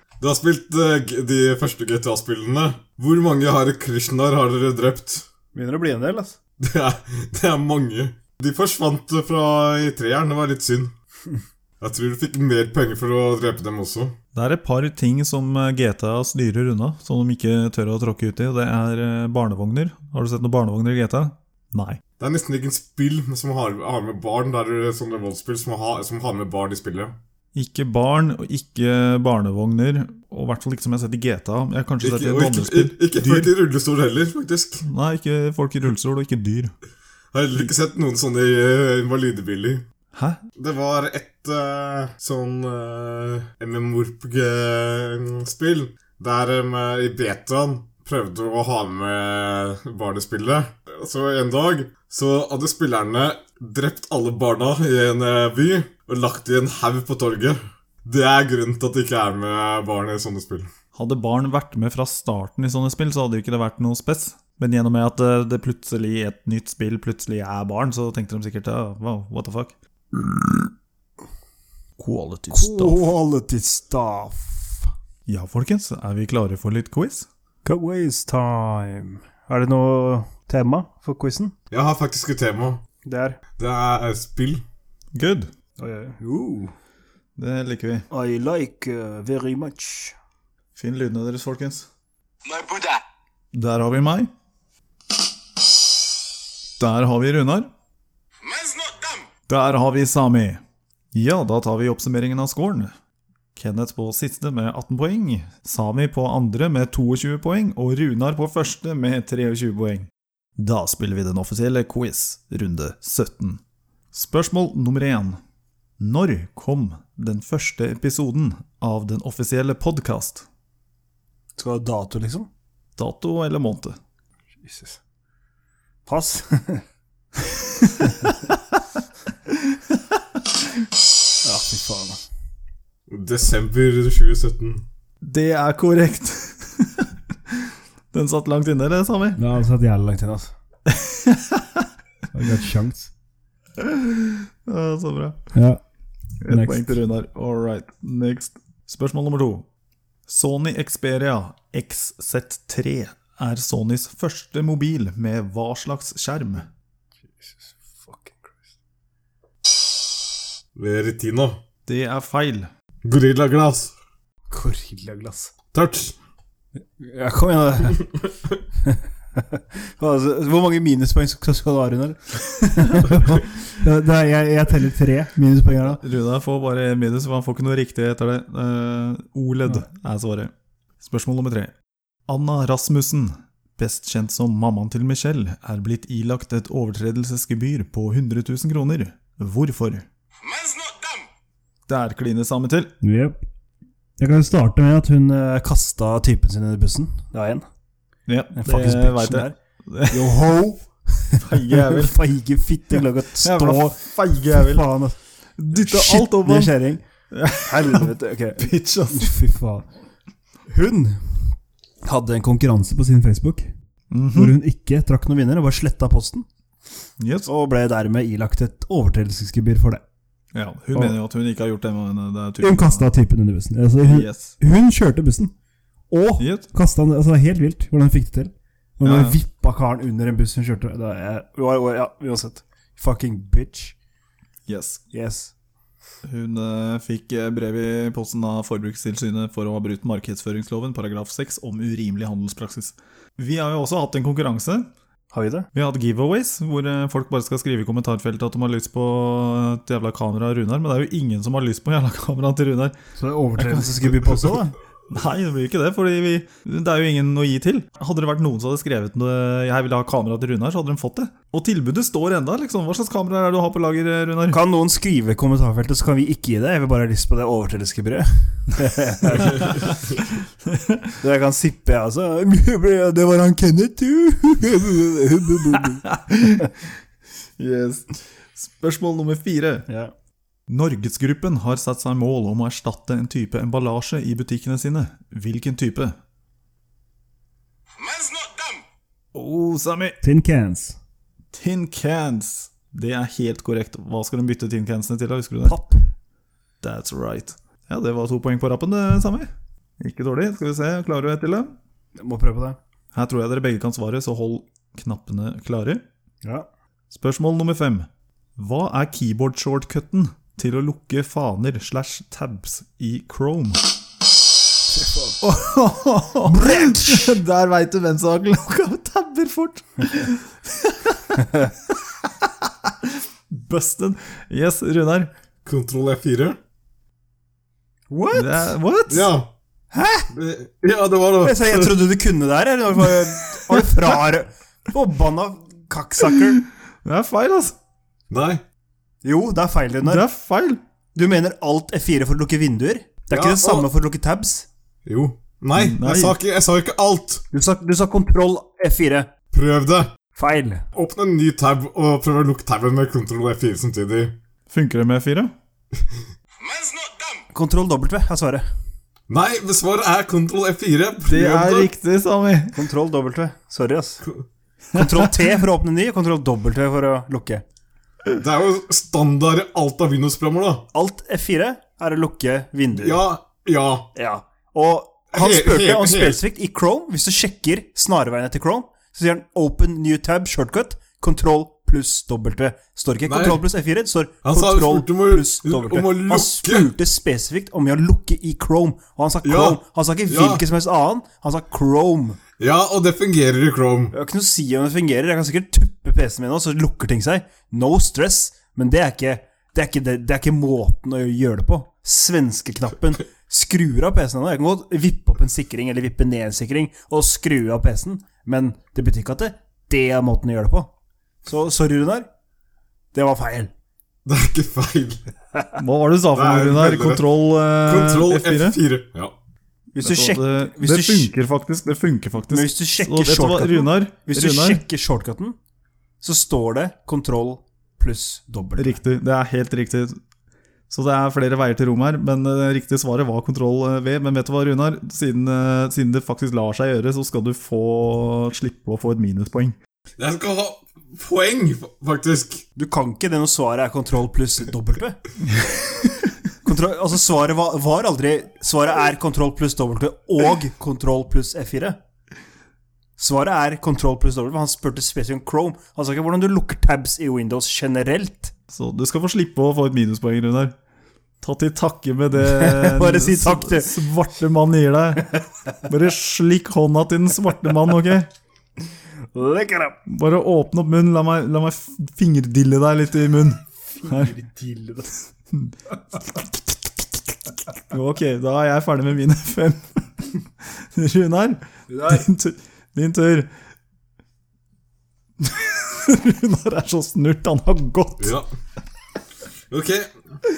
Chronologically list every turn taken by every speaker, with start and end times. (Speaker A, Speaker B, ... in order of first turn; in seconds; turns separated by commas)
Speaker A: 0.2-5.2, Speaker B: 5.5-6.4, Speaker A: 6.6-10.9, Speaker A: 11.8-14.1, Speaker C: 14.3-22.0, Speaker A: 22.2-27.1, Speaker C: 27.5-33.5, Speaker A: 32.0-34.8, Speaker C: 34.8-36.7, Speaker A: 37.3-39.9, Speaker C: 40.1-40.4, Speaker A: 40.6-60.7, Speaker C: 60.9-69.7, Speaker C: 72.0-73.1, Speaker B: 72.5-74.9, Speaker C: 75.3-77.3, Speaker B: 77.6-81.5, Speaker A: 81.7-82.8, Speaker B: 83.0-83.4, Speaker A: 83.6-84.6, Speaker C: 85.1-85.5, Speaker B: 85.8-86.7, Speaker C: 87.3-88.0, Speaker B: 88.1-90.1, Speaker C: 90.8-91.9, Speaker D: 92.4-93.0, Speaker C: 93.5-94.3, Speaker C: 96.8-97.7, Speaker D: 98.4-99.2, Speaker C: 99.5-100.6, Speaker C: 101.1-102.9, Speaker C: 103.5-113.6, Speaker C: 114.1-115.4, Speaker C: 116.0-120.5, Speaker B: 121.6-122.5, Speaker C: 123.0-124.0, Speaker B: 124.6-125.0, Speaker B: 126.0-126.8, Speaker C: 129.5-130.2, Speaker B: 131.4-132.2, Speaker A: 133.1-134.8, Speaker C: 135.2-139.4, Speaker B: 139.3-140.5, Speaker C: 140.9-141.9, Speaker B: 142.3-143.1, Speaker C: 143.8-145.5, Speaker B: 145.5-145.8, Speaker C: 146.4-149.7, Speaker B: 146.5-147.0, Speaker C: 150.3-156.7, Speaker B: 157.3-158.7, Speaker A: 160.8-161.6, Speaker C: 161.8-162.7, Speaker A: 163.0-163.9, Speaker B: 164.5-165.5, Speaker A: 165.7-166.1, Speaker B: 167.0-168.1, Speaker B: 168.8-176.0, Speaker C: 175.9-181.7, Speaker C: 182.3-190.0, Speaker D: 190.4-191.2, Speaker C: 191.9-192.9, Speaker B: 193.0-193.4, Speaker B: 194.2-197.7, Speaker C: 198.3-200.4, Speaker B: 198.5-199.6, Speaker B: 200.1-205.2, Speaker C: 201.4-202.2, Speaker C: 203.4-204.9, Speaker C: 205.6-206.7, Speaker B: 205.7-207.0, Speaker C: 207.3-209.3, Speaker B: 207.6-209.9, Speaker B: 210.7-213.7, Speaker C: 214.1-214.5, Speaker B: 214.3-216.4, Speaker C: 217.2-217.5, Speaker B: 217.4-220.0, Speaker C: 220.5-223.1, Speaker B: 222.6-225.5, Speaker C: 224.0-224.5, Speaker B: 226.1-233.9, Speaker C: 226.4-226.7, Speaker C: 229.0-229.4, Speaker C: 234.7-235.0, Speaker B: 235.1-235.5, Speaker C: 236.2-244.9, Speaker B: 245.3-245.7, Speaker C: 245.7-252.9, Speaker B: 253.2-254.8, Speaker C: 253.6-254.3, Speaker C: 255.1-264.6, Speaker B: 264.5-269.8, Speaker C: 270.7-271.1, Speaker B: 271.2-276.1, Speaker C: 276.1-276.7, Speaker C: 277.6-279.9, Speaker C: 280.7-286.2, Speaker D: 288.0-288.8, Speaker C: 289.3-290.2, Speaker B: 290.2-291.0, Speaker C: 291.5-295.8, Speaker B: 295.6-296.1, Speaker C: 296.8-301.7, Speaker B: 302.1-302.8, Speaker C: 303.1-306.0, Speaker B: 306.4-306.7, Speaker C: 307.1-313.9, Speaker B: 314.9-315.4, Speaker C: 315.4-325.3, Speaker B: 316.4-317.4, Speaker A: 325.6-326.6, Speaker B: 328.1-328.7, Speaker C: 328.3-329.3, Speaker A: 329.1-329.5, Speaker B: 329.9-330.3, Speaker A: 330.3-332.0, Speaker B: 331.4-336.6, Speaker C: 337.0-337.7, Speaker A: 338.3-338.6, Speaker B: 339.2-340.2, Speaker C: 340.0-340.8, Speaker B: 341.1-344.7, Speaker A: 343.3-343.9, Speaker A: 345.1-347.4, Speaker C: 345.7-346.4, Speaker B: 347.5-349.3, Speaker A: 349.5-350.1, Speaker B: 350.3-350.8, Speaker A: 350.9-354.4, Speaker C: 354.7-355.5, Speaker D: 356.6-357.4, Speaker B: 357.5-358.6, Speaker A: 359.3-361.9, Speaker C: 361.2-362.9, Speaker B: 362.7-364.2, Speaker B: 364.9-367.6, Speaker A: 368.3-370.9, Speaker B: 370.9-373.2, Speaker A: 373.0-374.1, Speaker B: 374.1-392.4, Speaker A: 375.3-376.4, Speaker A: 383.3-383.6, Speaker A: 384.4-386.9, Speaker A: 389.4-390.6, Speaker A: 392.6-394.1, Speaker B: 394.1-410.9, Speaker B: 411.4-412.3, Speaker B: 413.1-413.7, Speaker A: 414.2-415.2, Speaker C: 415.8-418.8, Speaker A: 416.3-417.2, Speaker A: 417.8-419.3, Speaker B: 419.9-421.3, Speaker C: 420.0-424.8, Speaker B: 422.5-425.6, Speaker B: 426.2-429.0, Speaker C: 428.8-430.2, Speaker C: 430.9-439.8, Speaker A: 440.2-442.6, Speaker B: 442.8-445.2, Speaker B: 446.6-452.0, Speaker B: 453.2-458.5, Speaker C: 458.7-460.7, Speaker C: 461.4-468.3, Speaker B: 462.4-464.0, Speaker B: 469.3-470.0, Speaker C: 470.1-474.3, Speaker B: 473.9-475.2, Speaker C: 475.5-483.5, Speaker B: 481.9-482.3, Speaker C: 485.4-488.3, Speaker A: 488.2-488.4, Speaker A: 489.7-490.1